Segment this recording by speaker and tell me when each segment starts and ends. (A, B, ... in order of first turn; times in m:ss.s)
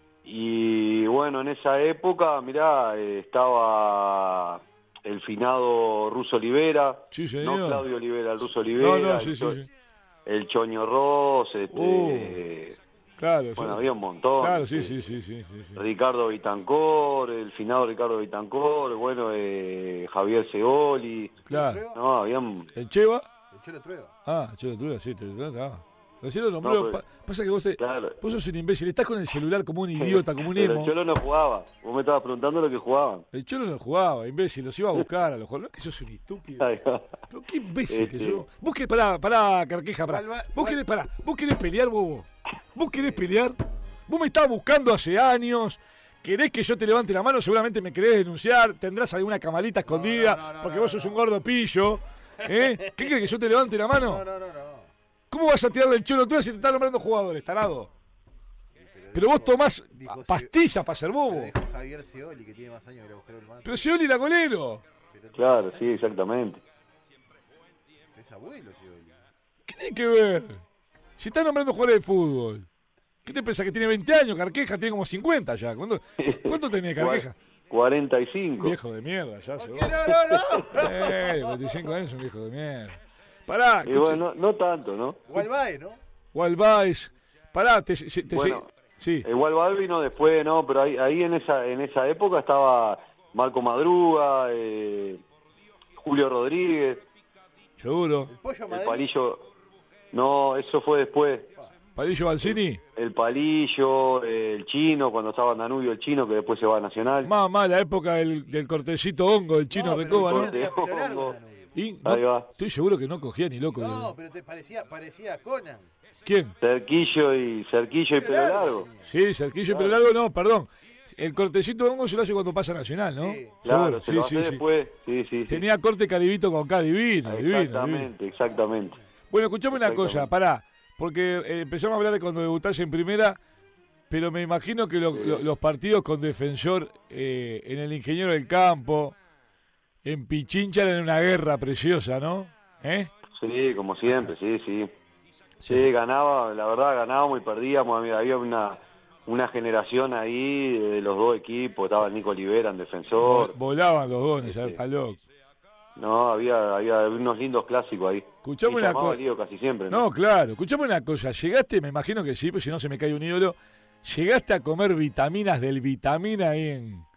0:00.2-0:09.6 A
0:07.1-0:07.9 B
0:08.6-0:09.7 B
0:10.3-0:12.8 A
0:11.7-0:12.4 B
0:13.2-0:13.8 B
0:13.6-0:15.0 A
0:14.4-0:15.8 B
0:15.8-0:21.4 A
0:21.4-0:22.0 C
0:21.5-0:21.8 B
0:21.9-0:22.7 A
0:22.8-0:23.3 B
0:23.5-0:24.1 C
0:24.3-0:30.9 B
0:26.6-0:27.0 A
0:27.8-0:28.2 A
0:30.0-0:33.3 A
0:33.3-0:36.7 B
0:36.6-0:37.2 A
0:37.3-0:43.6 B
0:37.9-0:38.4 A
0:40.1-0:40.8 C
0:42.9-0:43.8 C
0:44.1-0:54.2 B
0:49.8-0:51.3 C
0:52.4-0:53.3 C
0:53.9-0:54.9 C
0:55.3-0:57.9 B
0:58.8-1:00.5 C
0:59.1-1:01.5 B
1:01.3-1:03.9 C
1:03.6-1:04.8 B
1:05.1-1:06.2 C
1:05.4-1:06.6 A
1:08.2-1:09.2 C
1:09.7-1:10.6 B
1:11.2-1:12.7 B
1:13.2-1:17.4 B
1:16.2-1:18.8 A
1:18.6-1:20.1 B
1:19.6-1:21.9 C
1:20.3-1:20.9 A
1:20.7-1:24.2 B
1:23.8-1:25.2 A
1:25.3-1:26.0 C
1:26.3-1:29.3 B
1:28.3-1:28.7 A
1:29.2-1:35.2 A
1:36.0-1:37.1 A
1:37.8-1:38.3 B
1:38.3-1:39.1 C
1:38.7-1:39.5 A
1:40.1-1:41.5 A
1:42.0-1:42.8 B
1:42.4-1:47.3 A
1:47.2-1:50.6 B
1:49.7-1:51.7 C
1:50.1-1:51.4 A
1:51.8-1:54.1 B
1:52.0-1:52.5 A
1:53.8-1:55.9 C
1:56.2-1:56.6 B
1:56.6-1:58.9 A
1:58.2-1:59.1 C
1:59.0-2:04.6 B
1:59.7-2:00.0 A
2:03.2-2:03.6 C
2:03.6-2:05.6 A
2:05.5-2:08.1 B
2:07.2-2:09.0 A
2:09.3-2:13.4 B
2:09.7-2:10.3 A
2:14.1-2:19.2 B
2:15.1-2:15.5 A
2:20.0-2:23.1 B
2:23.4-2:24.9 A
2:25.6-2:25.9 B
2:25.7-2:33.6 A
2:33.2-2:35.2 B
2:34.4-2:34.8 A
2:36.0-2:40.0 A
2:38.4-2:39.2 B
2:39.9-2:47.0 B